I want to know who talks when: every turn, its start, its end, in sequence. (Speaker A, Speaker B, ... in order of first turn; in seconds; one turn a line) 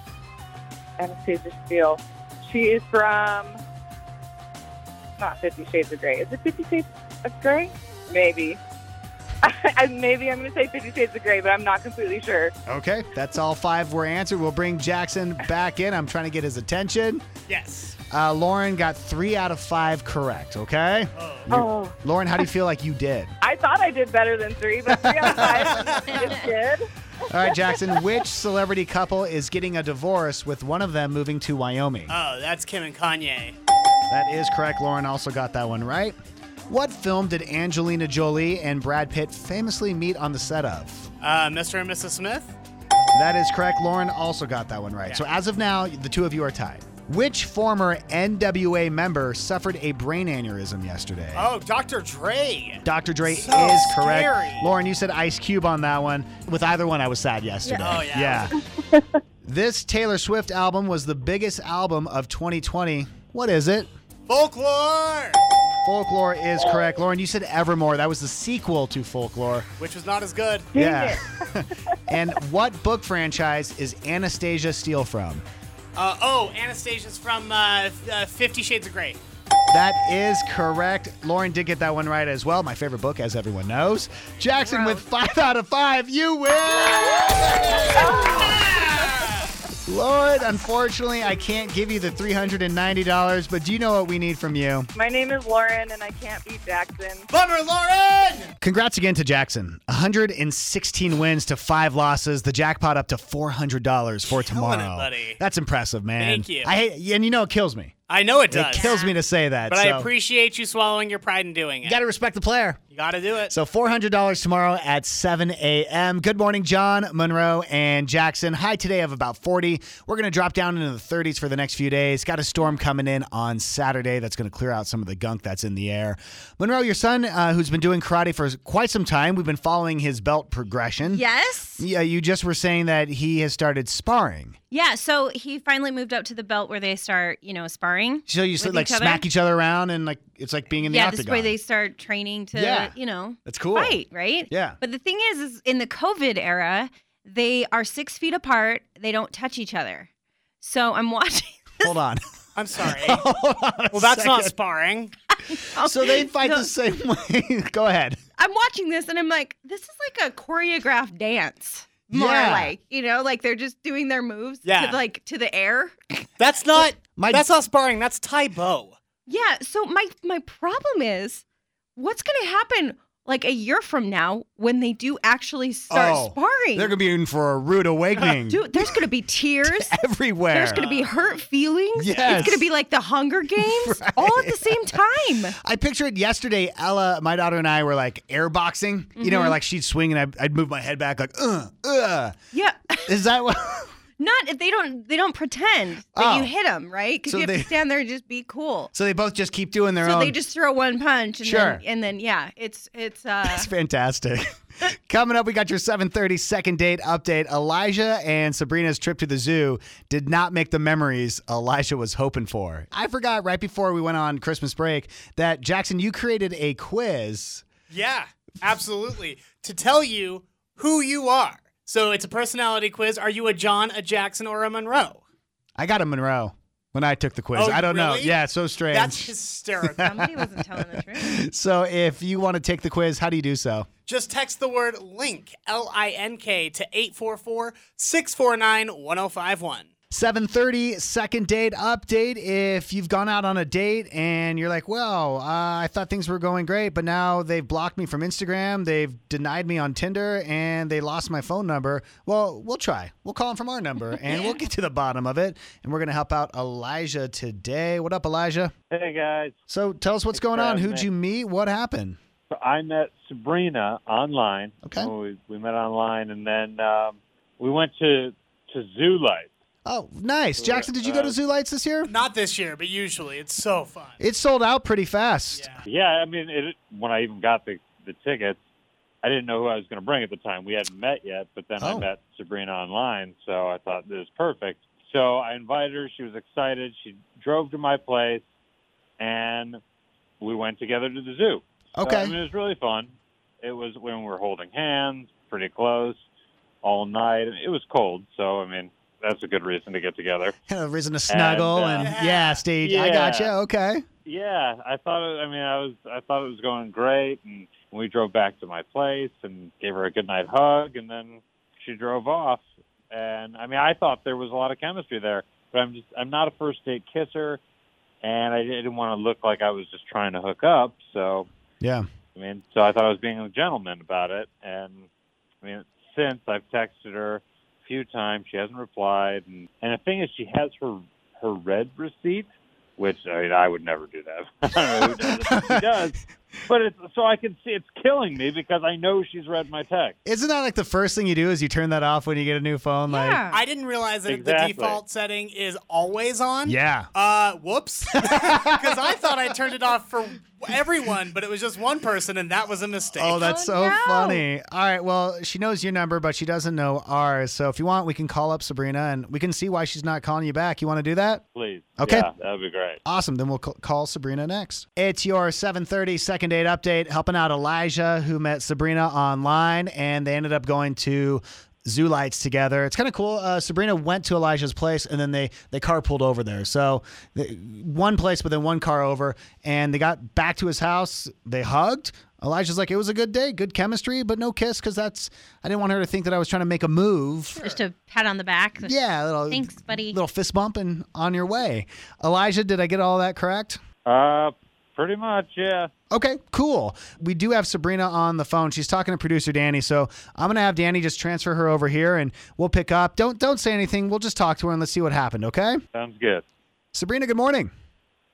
Speaker A: 1.0-3.6
Speaker A: 5.2-8.6
Speaker A: 9.4-12.5
Speaker B: 12.7-17.2
Speaker C: 17.5-17.9
Speaker B: 18.1-23.3
Speaker C: 21.1-21.5
Speaker A: 21.5-22.0
Speaker A: 23.4-28.0
Speaker B: 24.9-26.1
Speaker C: 25.4-26.3
Speaker B: 27.3-32.1
Speaker C: 32.1-33.5
Speaker B: 34.1-36.2
Speaker B: 36.7-41.1
Speaker C: 41.2-42.5
Speaker B: 43.1-51.5
Speaker C: 51.3-54.7
Speaker B: 52.8-58.5
Speaker C: 57.7-58.5
Speaker B: 59.4-63.9
Speaker C: 64.3-65.4
Speaker B: 65.8-69.7
Speaker C: 69.8-70.7
Speaker A: 70.7-71.3
Speaker B: 70.7-75.4
Speaker C: 76.0-79.2
Speaker B: 79.7-88.8
Speaker A: 87.9-88.6
Speaker C: 88.3-89.5
Speaker B: 89.8-94.9
Speaker A: 94.9-97.3
Speaker C: 97.3-98.5
Speaker B: 98.6-107.9
Speaker C: 104.3-105.4
Speaker C: 106.2-106.7
Speaker C: 108.1-108.9
Speaker B: 108.5-110.1
Speaker D: 108.7-109.1
Speaker C: 109.7-112.0
Speaker B: 111.8-112.8
Speaker C: 112.9-113.5
Speaker B: 113.5-131.2
Speaker D: 131.1-131.8
Speaker B: 131.8-134.6
Speaker D: 134.7-139.2
Speaker B: 138.3-141.5
Speaker D: 140.8-150.1
Speaker B: 142.5-142.9
Speaker B: 143.4-144.8
Speaker D: 150.6-151.9
Speaker B: 151.8-152.2
Speaker C: 152.6-153.2
Speaker B: 152.9-154.5
Speaker C: 153.9-155.1
Speaker D: 155.5-156.7
Speaker B: 155.8-158.2
Speaker D: 158.4-166.2
Speaker B: 162.1-162.7
Speaker C: 164.6-165.0
Speaker C: 166.4-169.0
Speaker B: 167.2-167.4
Speaker D: 169.3-171.4
Speaker D: 171.9-176.9
Speaker B: 175.9-179.0
Speaker D: 178.5-185.5
Speaker B: 179.6-180.8
Speaker C: 180.7-181.4
Speaker B: 181.9-182.6
Speaker C: 182.1-182.5
Speaker B: 183.5-184.9
Speaker B: 185.6-192.3
Speaker D: 189.2-189.6
Speaker D: 192.5-193.1
Speaker B: 193.1-193.9
Speaker D: 194.2-198.9
Speaker B: 196.1-196.5
Speaker B: 197.3-197.7
Speaker B: 198.9-200.3
Speaker D: 200.0-203.7
Speaker B: 201.4-201.8
Speaker B: 203.4-217.6
Speaker C: 217.9-225.2
Speaker B: 225.8-233.9
Speaker C: 227.5-228.4
Speaker C: 228.9-230.2
Speaker D: 230.0-231.4
Speaker C: 234.1-239.9
Speaker B: 240.1-258.7
Speaker E: 258.9-259.6
Speaker B: 259.7-262.2
Speaker E: 260.3-261.1
Speaker E: 262.5-269.5
Speaker B: 264.8-265.1
Speaker B: 269.9-272.1
Speaker E: 270.6-271.3
Speaker C: 272.1-274.2
Speaker B: 274.2-275.7
Speaker C: 275.6-275.8
Speaker E: 275.9-278.6
Speaker E: 279.2-288.4
Speaker B: 281.8-282.1
Speaker E: 289.2-289.8
Speaker E: 290.4-296.2
Speaker B: 292.0-292.4
Speaker E: 296.8-300.5
Speaker B: 300.7-304.1
Speaker E: 301.3-302.2
Speaker C: 301.9-302.6
Speaker E: 302.8-303.5
Speaker E: 304.2-317.6
Speaker E: 318.2-321.5
Speaker B: 321.8-322.1
Speaker E: 322.3-325.1
Speaker E: 325.6-336.1
Speaker B: 334.9-335.9
Speaker E: 336.7-340.1
Speaker B: 340.2-343.4
Speaker D: 343.1-343.6
Speaker C: 343.5-353.5
Speaker E: 344.3-345.0
Speaker B: 346.6-347.1
Speaker B: 348.2-349.0
Speaker B: 353.2-361.4
Speaker D: 353.4-354.4
Speaker E: 361.5-363.0
Speaker B: 362.0-362.3
Speaker B: 363.0-387.7
Speaker D: 387.6-388.9
Speaker B: 388.8-393.8
Speaker D: 389.5-390.2
Speaker E: 394.1-395.9
Speaker B: 396.1-405.8
Speaker E: 405.9-406.4
Speaker B: 406.9-407.7